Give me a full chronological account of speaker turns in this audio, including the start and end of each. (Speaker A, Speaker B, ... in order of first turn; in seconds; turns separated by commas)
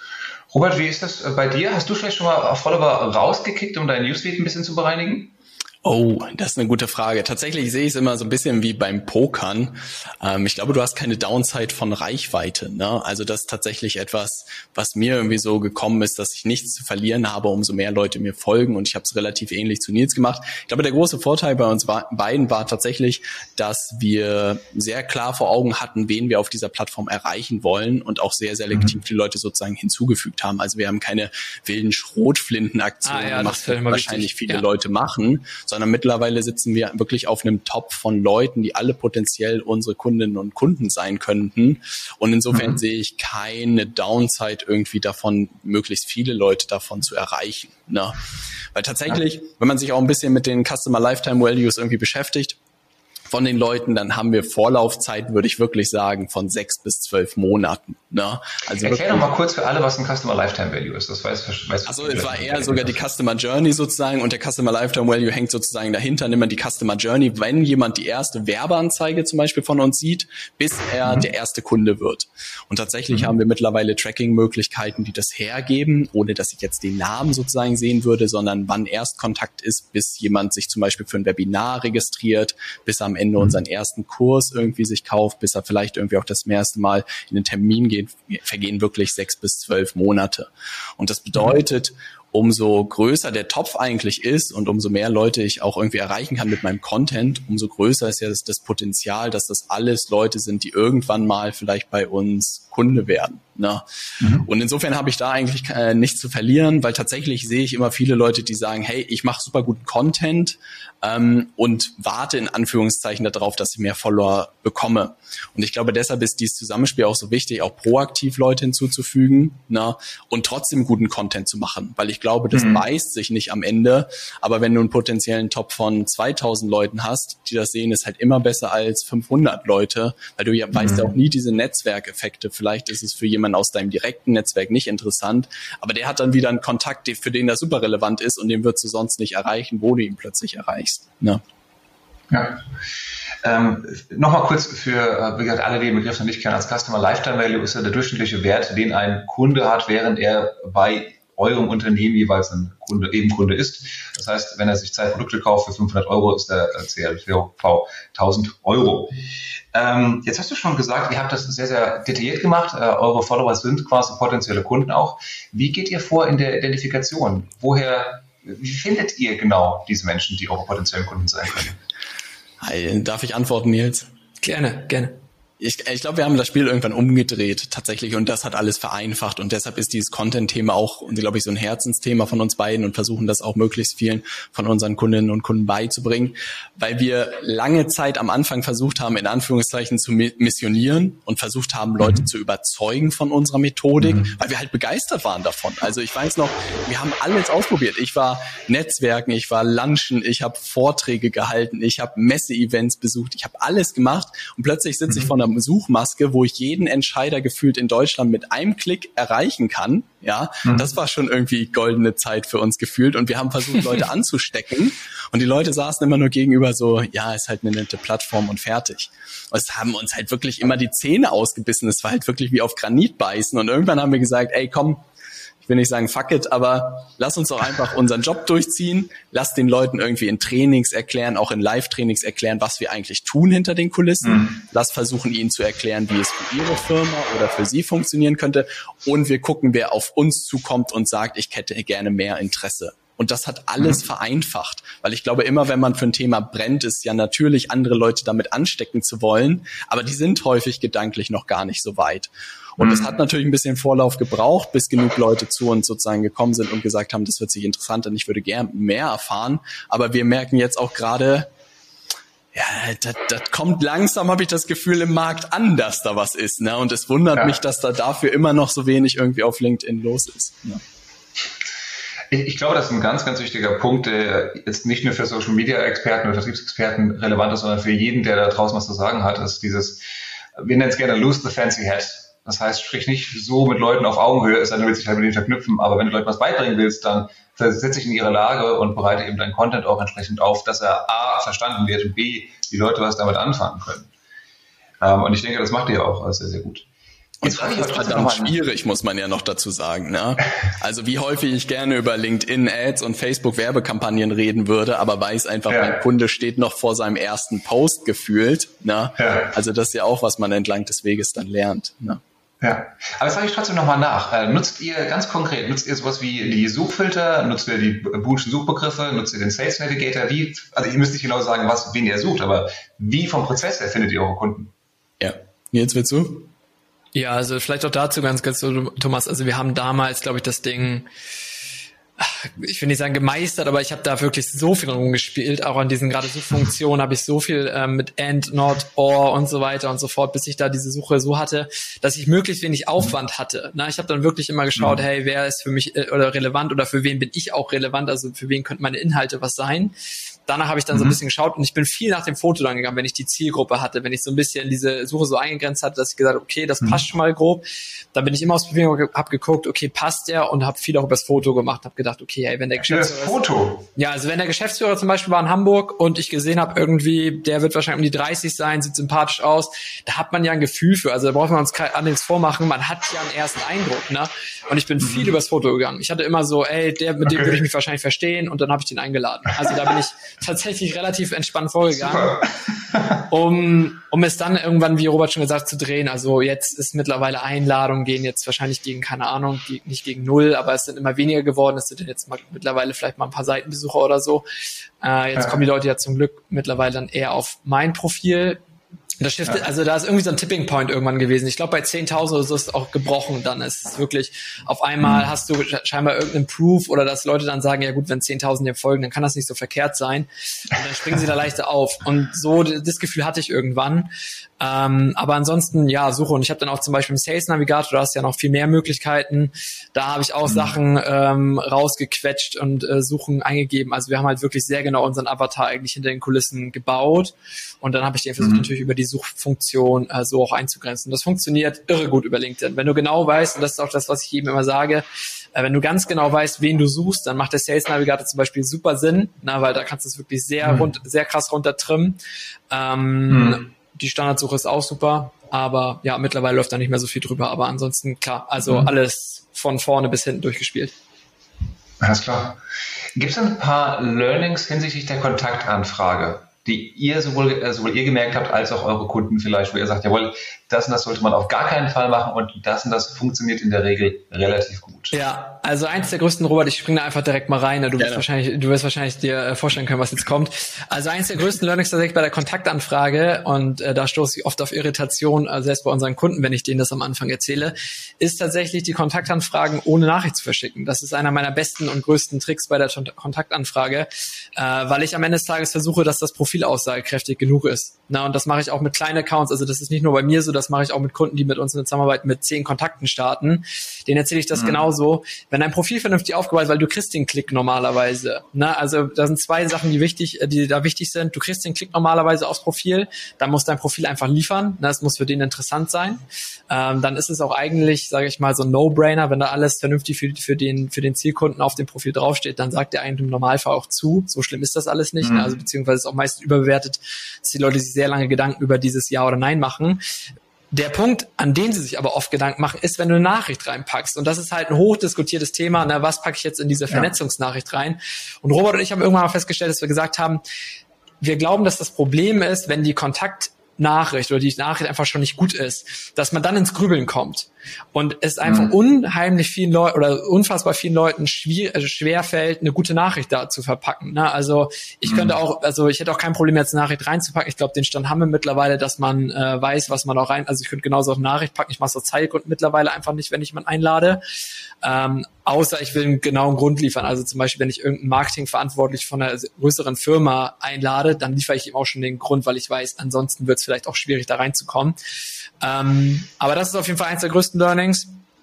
Speaker A: 0.5-5.3, Speaker B: 5.8-48.2, Speaker C: 33.1-34.7, Speaker B: 48.7-52.6, Speaker B: 53.3-59.3, Speaker A: 58.8-63.0, Speaker B: 61.9-141.4, Speaker A: 104.2-104.5, Speaker A: 122.5-122.8, Speaker A: 130.8-131.1, Speaker A: 142.3-142.6, Speaker A: 143.4-159.2, Speaker A: 159.7-171.8, Speaker B: 172.6-174.1, Speaker C: 174.4-175.2, Speaker B: 175.6-225.0, Speaker A: 194.0-194.3, Speaker B: 225.6-261.5, Speaker A: 234.2-234.6, Speaker A: 252.8-253.1, Speaker B: 262.5-270.8, Speaker A: 272.3-280.0, Speaker A: 280.6-294.1, Speaker A: 295.0-296.9, Speaker A: 297.4-298.6, Speaker B: 297.4-312.2, Speaker A: 305.7-306.0, Speaker A: 309.2-309.5, Speaker A: 312.6-324.7, Speaker B: 325.2-326.5, Speaker C: 327.1-331.1, Speaker C: 332.2-349.9, Speaker C: 350.5-363.4, Speaker A: 350.9-351.2, Speaker A: 362.9-363.9, Speaker C: 364.0-382.4, Speaker A: 375.0-375.3, Speaker A: 377.3-377.5, Speaker A: 382.0-383.2, Speaker C: 383.3-394.4, Speaker C: 395.0-398.6, Speaker C: 399.2-414.1, Speaker C: 414.6-442.2, Speaker A: 428.4-428.7, Speaker C: 442.7-450.9, Speaker A: 443.3-443.6, Speaker A: 448.6-448.9, Speaker A: 452.0-452.6, Speaker A: 453.2-465.1, Speaker C: 465.1-520.0, Speaker B: 468.0-468.2, Speaker A: 515.2-515.5, Speaker C: 520.7-530.4, Speaker C: 531.2-554.2, Speaker A: 538.5-538.7, Speaker A: 545.0-545.3, Speaker C: 554.8-565.0, Speaker C: 565.6-568.2